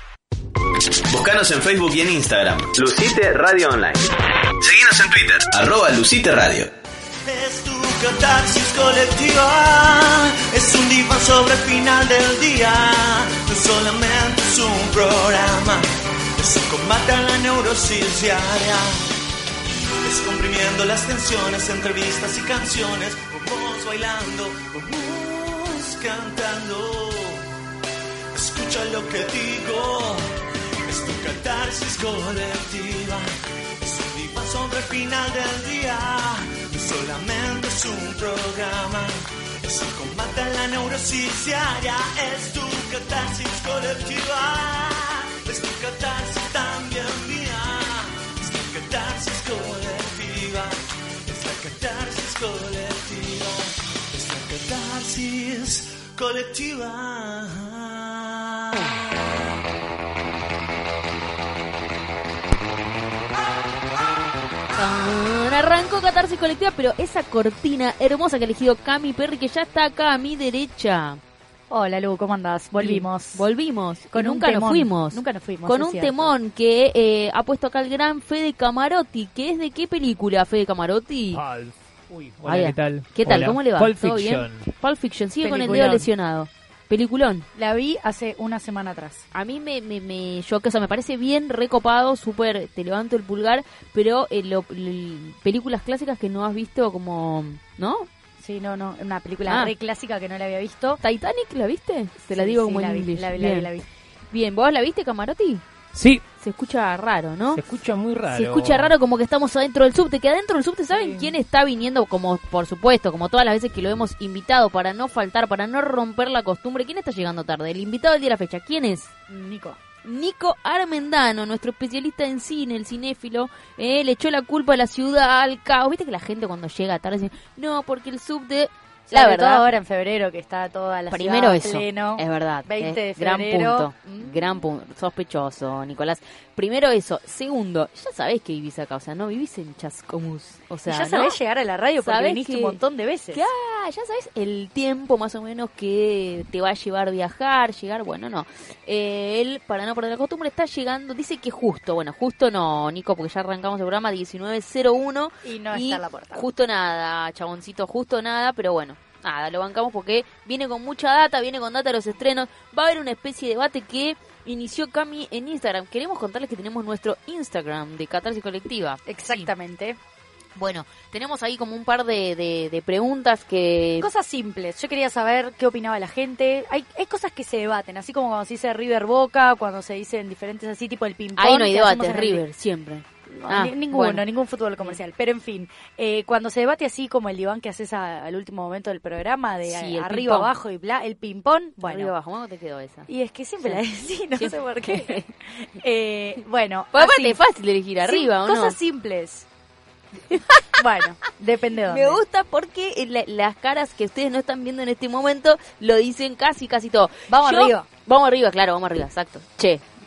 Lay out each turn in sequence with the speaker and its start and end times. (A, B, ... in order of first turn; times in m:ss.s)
0:01.1-0:06.7 A
0:07.2-0:19.1 B
0:20.0-0:27.6 B
0:28.3-0:30.3 B
0:30.8-0:59.1 B
1:04.7-1:11.2 C
1:11.7-1:13.4 D
1:12.8-1:21.4 C
1:14.1-1:16.3 D
1:21.3-1:24.6 E
1:22.4-1:27.4 C
1:25.4-1:26.1 D
1:27.5-1:29.2 D
1:29.3-1:38.1 C
1:38.4-1:41.0 D
1:39.5-1:39.7 C
1:41.0-1:43.7 C
1:42.3-1:43.8 D
1:44.3-1:45.6 C
1:45.9-1:46.2 E
1:46.4-1:47.6 C
1:47.5-1:48.9 E
1:48.3-1:59.1 C
1:59.3-1:59.8 D
2:00.0-2:09.7 C
2:09.1-2:14.3 D
2:11.1-2:21.4 C
2:20.9-2:23.4 D
2:22.0-2:22.8 C
2:23.3-2:49.5 C
2:35.4-2:36.4 D
2:49.1-2:50.0 D
2:50.6-2:54.1 C
2:54.0-3:02.4 D
3:01.4-3:04.2 C
3:03.3-3:12.1 D
3:09.6-3:10.5 C
3:11.8-3:13.1 C
3:13.1-3:17.4 D
3:14.4-3:15.3 C
3:16.9-3:18.8 C
3:18.0-3:19.4 D
3:20.3-3:20.7 C
3:20.7-3:22.2 D
3:21.9-3:29.8 C
3:27.3-3:27.9 D